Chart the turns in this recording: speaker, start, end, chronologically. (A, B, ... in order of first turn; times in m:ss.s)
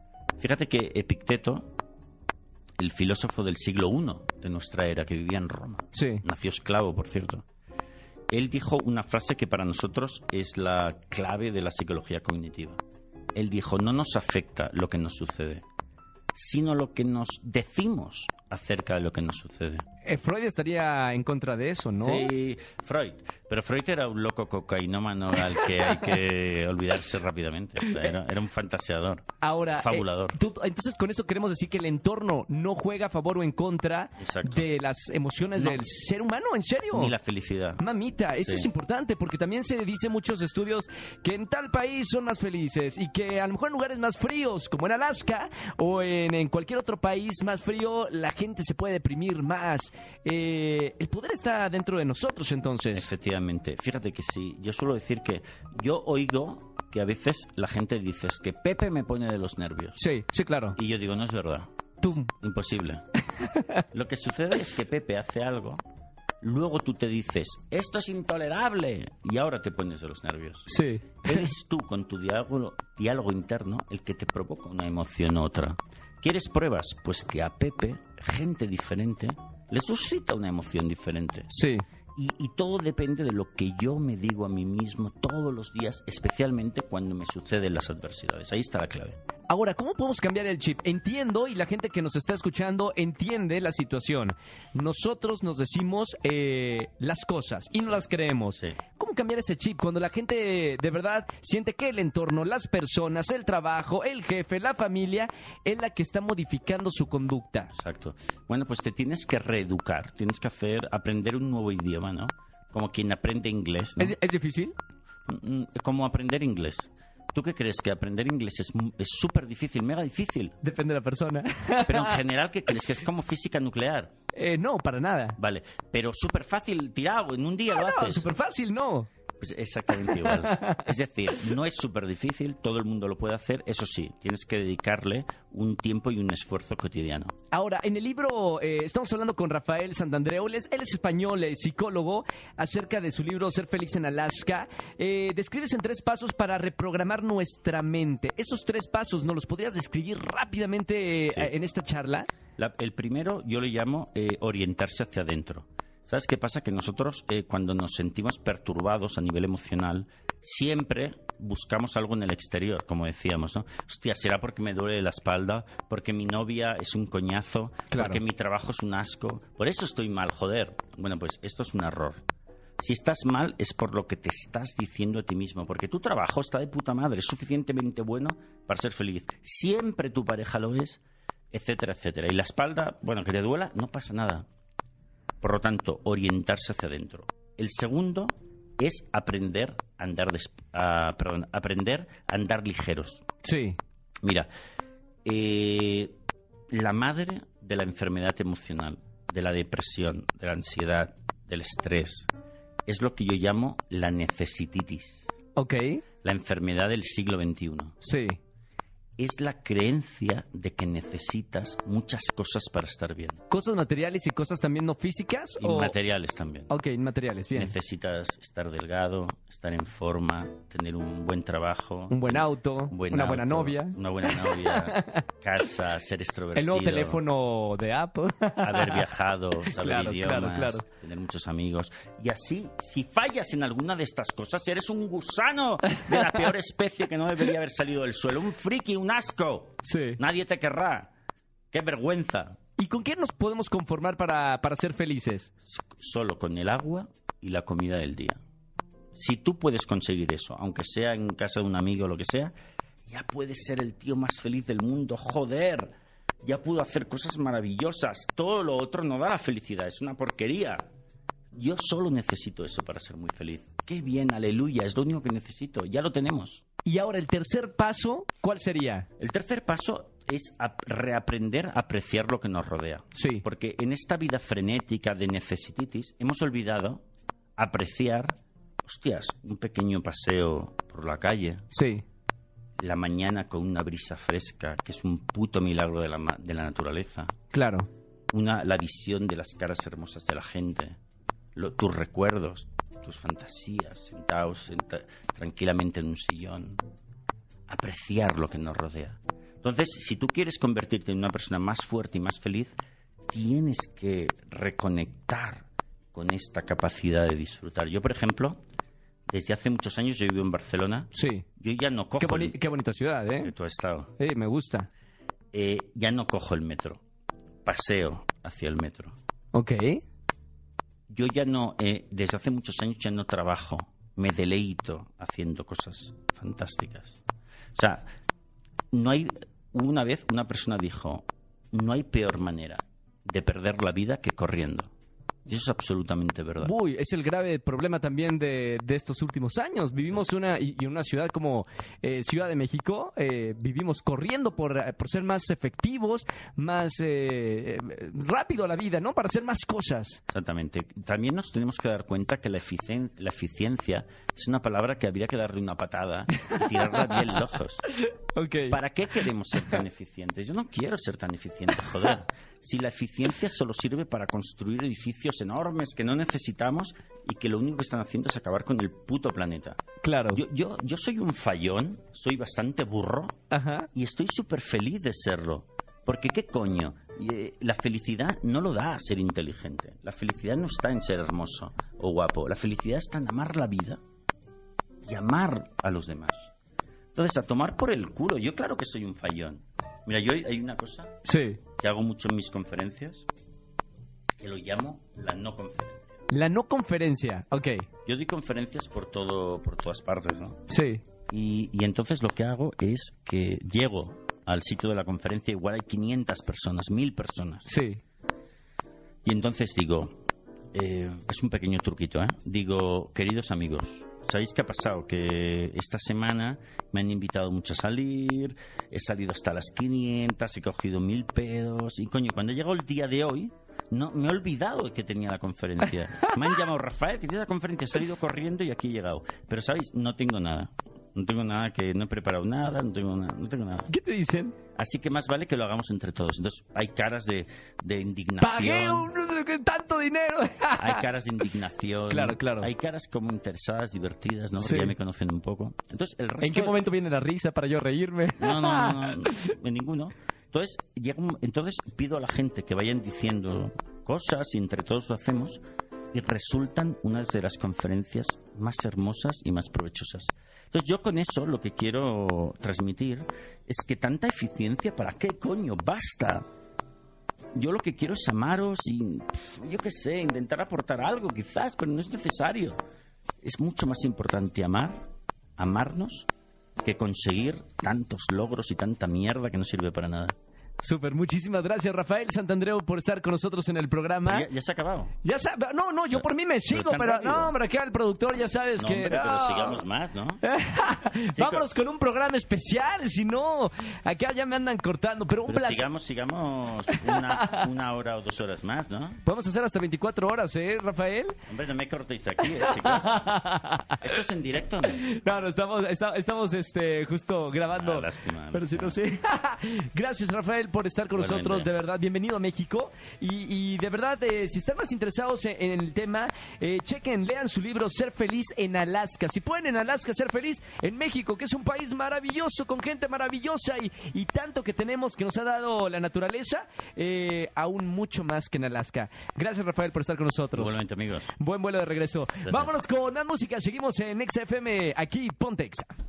0:00.4-0:01.7 A
0:02.8-0:07.4 A
0:05.9-0:06.2 B
0:08.3-0:12.8 A
0:13.3-0:15.6 A
0:16.3-0:19.9 A
0:20.0-0:22.3 B
0:22.0-0:30.4 A
0:25.5-0:25.9 B
0:27.8-0:28.1 B
0:29.4-0:37.1 B
0:34.2-0:34.7 A
0:35.6-0:35.8 A
0:36.9-0:37.8 A
0:37.8-0:53.1 B
0:38.4-0:38.7 A
0:52.9-1:00.0 A
1:00.0-1:00.8 B
1:00.7-1:03.0 A
1:02.0-1:02.3 B
1:03.4-1:03.8 B
1:03.9-1:05.8 A
1:06.4-1:10.7 A
1:10.7-1:11.5 B
1:11.2-1:21.5 A
1:21.5-1:21.8 B
1:22.2-1:29.2 A
1:29.5-1:47.7 B
1:38.5-1:38.8 A
1:47.7-1:54.2 A
1:54.0-1:54.7 B
1:55.3-2:00.6 A
2:00.6-2:02.2 B
2:01.8-2:04.1 A
2:04.3-2:05.4 B
2:05.4-2:08.3 A
2:07.7-2:09.1 B
2:09.4-2:17.3 A
2:10.0-2:10.9 B
2:17.5-2:32.3 B
2:32.6-2:52.2 A
2:47.9-2:48.2 B
2:52.8-3:01.0 A
3:01.5-3:04.5 A
3:05.4-3:13.2 A
3:13.4-3:13.8 B
3:14.2-3:14.5 A
3:15.2-3:16.2 A
3:16.7-3:22.3 A
3:22.8-3:25.3 A
3:25.6-3:26.0 B
3:26.2-3:28.0 A
3:28.0-3:28.4 B
3:29.2-3:33.4 A
3:33.5-3:35.9 B
3:35.6-3:36.7 A
3:36.7-3:37.7 B
3:37.5-3:47.2 A
3:42.1-3:45.2 B
3:46.5-3:49.0 B
3:48.6-4:01.1 A
3:49.6-3:50.8 B
3:55.9-3:56.4 B
3:59.8-4:00.2 B
4:01.7-4:02.6 A
4:02.8-4:05.5 B
4:05.7-4:08.4 A
4:09.1-4:12.5 A
4:13.1-4:20.9 A
4:21.5-4:26.6 A
4:26.8-4:29.1 B
4:29.2-4:37.0 A
4:33.1-4:33.4 B
4:37.6-4:41.7 A
4:41.7-4:42.0 B
4:42.8-4:47.4 A
4:47.5-4:47.9 B
4:48.3-4:51.0 A
4:51.5-4:56.8 A
4:57.7-5:02.7 A
5:03.3-5:08.6 A
5:09.3-5:12.6 A
5:11.1-5:11.4 B
5:12.2-5:13.5 B
5:13.4-5:14.1 A
5:14.2-5:14.9 B
5:15.5-5:17.0 A
5:17.6-5:19.2 A
5:19.5-5:20.0 B
5:21.1-5:27.2 A
5:27.7-5:28.1 A
5:28.9-5:34.9 A
5:35.4-5:36.7 A
5:36.6-5:50.2 B
5:50.3-5:57.8 A
5:56.4-5:57.2 B
5:57.9-5:58.8 B
5:58.7-6:09.8 A
6:10.0-6:10.4 B
6:10.3-6:13.4 A
6:13.5-6:13.9 B
6:13.9-6:24.0 A
6:25.0-6:26.5 A
6:27.1-6:31.2 A
6:31.2-6:31.6 B
6:31.8-6:33.3 A
6:34.4-6:36.1 A
6:36.3-6:37.8 B
6:38.0-6:40.6 A
6:40.7-6:41.0 B
6:41.3-6:47.7 A
6:47.7-6:48.0 B
6:49.2-6:50.2 A
6:50.7-7:13.9 A
7:13.9-7:14.5 B
7:14.8-7:19.1 A
7:18.4-7:21.0 B
7:20.8-7:26.8 A
7:22.1-7:22.7 B
7:24.6-7:24.9 B
7:26.4-7:29.5 B
7:28.4-7:46.4 A
7:47.5-7:52.8 A
7:53.4-7:55.0 A
7:55.6-7:56.3 A
7:56.8-8:00.3 A
8:00.8-8:04.5 B
8:04.2-8:05.2 A
8:05.2-8:09.8 B
8:06.2-8:07.5 A
8:08.8-8:10.4 A
8:10.4-8:15.8 B
8:11.3-8:11.7 A
8:15.5-8:19.2 A
8:17.1-8:17.6 B
8:19.2-8:21.4 B
8:21.5-8:23.2 A
8:22.5-8:24.0 B
8:24.0-8:25.0 A
8:25.0-8:50.7 B
8:27.7-8:29.0 A
8:31.1-8:31.7 A
8:50.5-8:51.3 A
8:51.4-8:55.9 B
8:52.4-8:52.7 A